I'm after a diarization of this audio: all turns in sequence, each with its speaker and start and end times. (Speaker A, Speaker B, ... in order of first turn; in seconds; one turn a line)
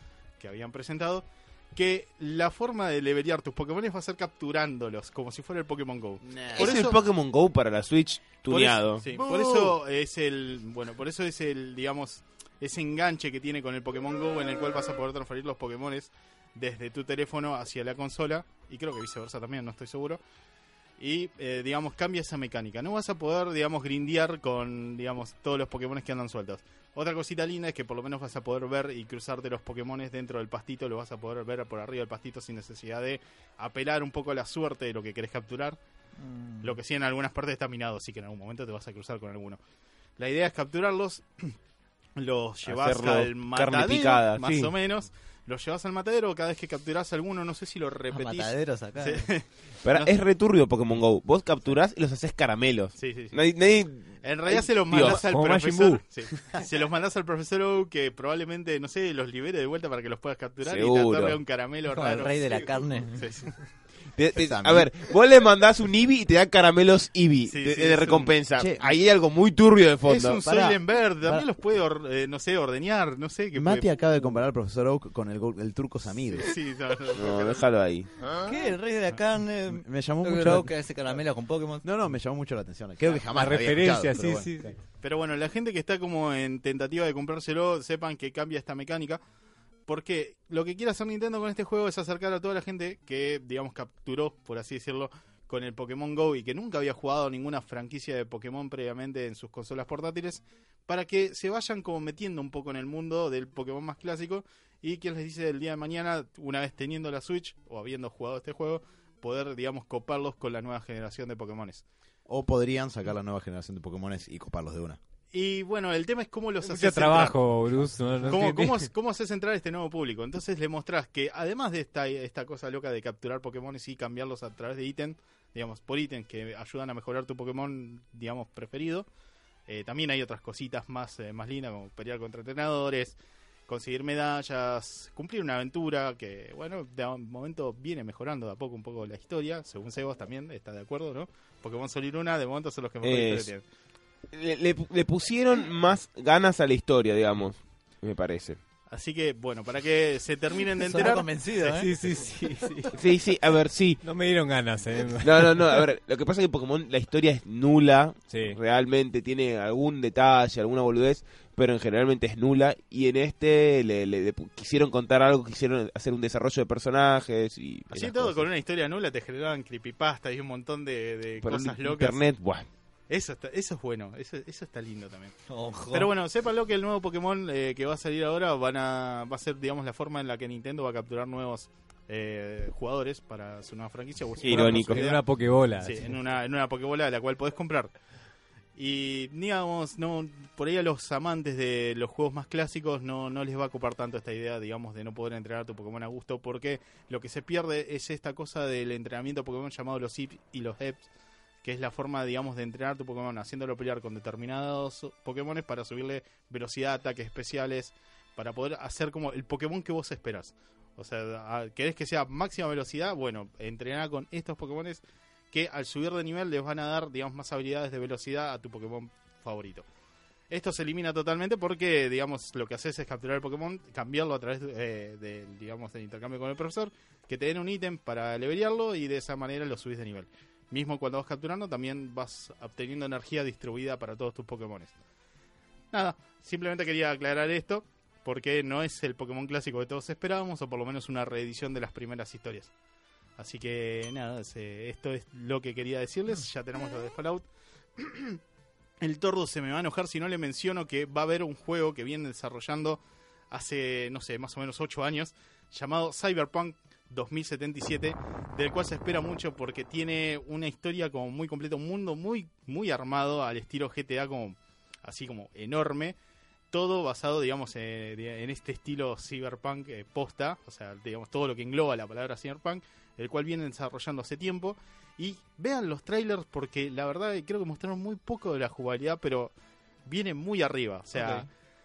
Speaker A: 0.4-7.0
Speaker B: 6.2-7.0
Speaker C: 6.5-9.2
Speaker A: 8.5-20.2
Speaker B: 9.2-9.7
Speaker A: 21.0-35.8
Speaker D: 36.2-36.8
Speaker A: 36.6-39.6
Speaker A: 40.2-41.5
Speaker A: 42.1-50.2
Speaker C: 42.6-44.7
Speaker D: 48.1-49.3
Speaker C: 49.8-55.2
Speaker A: 53.0-53.4
Speaker A: 54.2-63.6
Speaker E: 55.0-56.0
Speaker C: 60.6-61.4
Speaker D: 61.9-63.3
Speaker C: 64.2-70.8
Speaker B: 64.3-64.9
Speaker A: 67.4-68.4
Speaker B: 68.5-68.9
Speaker A: 70.0-73.9
Speaker B: 73.5-76.5
Speaker A: 76.3-77.6
Speaker C: 77.1-78.1
Speaker D: 78.4-81.8
Speaker B: 79.7-80.7
Speaker B: 81.8-84.5
Speaker E: 83.3-84.8
Speaker A: 85.0-89.2
Speaker A: 89.9-111.8
Speaker B: 112.3-115.0
Speaker A: 115.3-117.4
Speaker E: 116.6-118.9
Speaker A: 118.2-129.1
Speaker A: 129.7-143.6
Speaker C: 143.0-143.5
Speaker C: 144.3-148.6
Speaker A: 148.9-151.8
Speaker D: 150.8-151.9
Speaker E: 151.7-152.9
Speaker C: 152.9-154.0
Speaker E: 154.0-155.8
Speaker C: 155.2-168.4
Speaker E: 158.3-158.6
Speaker A: 167.9-172.3
Speaker C: 171.4-172.7
Speaker A: 173.1-175.3
Speaker D: 175.5-176.1
Speaker A: 175.9-185.2
Speaker C: 184.4-185.1
Speaker E: 184.4-186.2
Speaker A: 185.8-187.9
Speaker A: 188.8-201.1
Speaker A: 201.6-219.8
Speaker A: 220.5-234.9
Speaker A: 235.9-242.7
Speaker A: 243.4-248.4
Speaker A: 249.0-253.0
Speaker A: 253.5-266.2
Speaker A: 266.7-279.5
Speaker A: 280.1-281.5